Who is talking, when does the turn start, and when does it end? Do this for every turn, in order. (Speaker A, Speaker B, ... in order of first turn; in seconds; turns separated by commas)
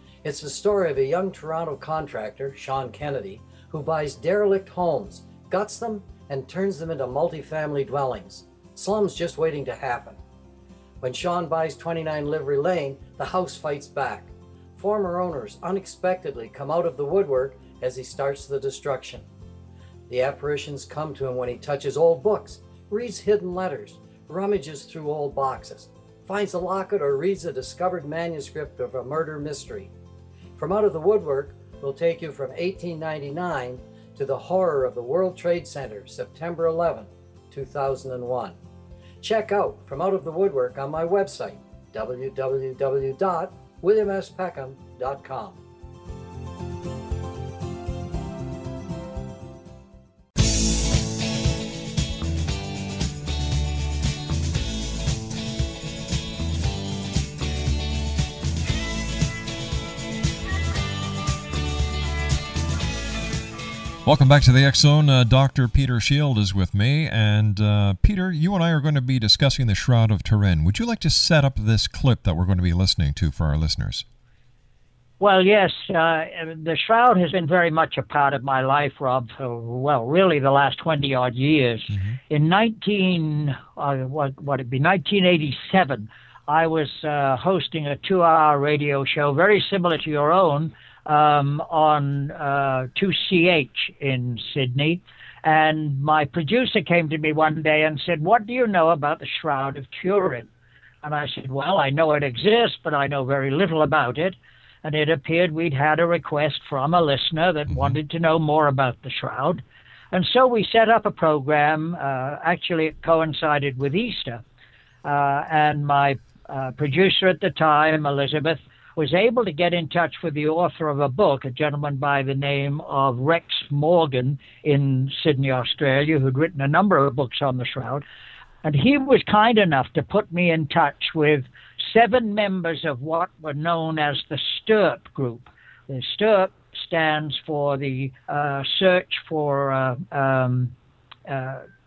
Speaker A: 0.2-10.2, Speaker A: 11.0-19.3, Speaker A: 20.1-29.9, Speaker A: 30.6-38.6, Speaker A: 39.2-45.6, Speaker B: 64.0-74.0, Speaker C: 75.2-100.5, Speaker B: 81.9-82.2, Speaker C: 101.0-114.4, Speaker B: 107.7-108.0, Speaker C: 115.0-128.0, Speaker C: 128.6-140.7, Speaker C: 141.3-141.7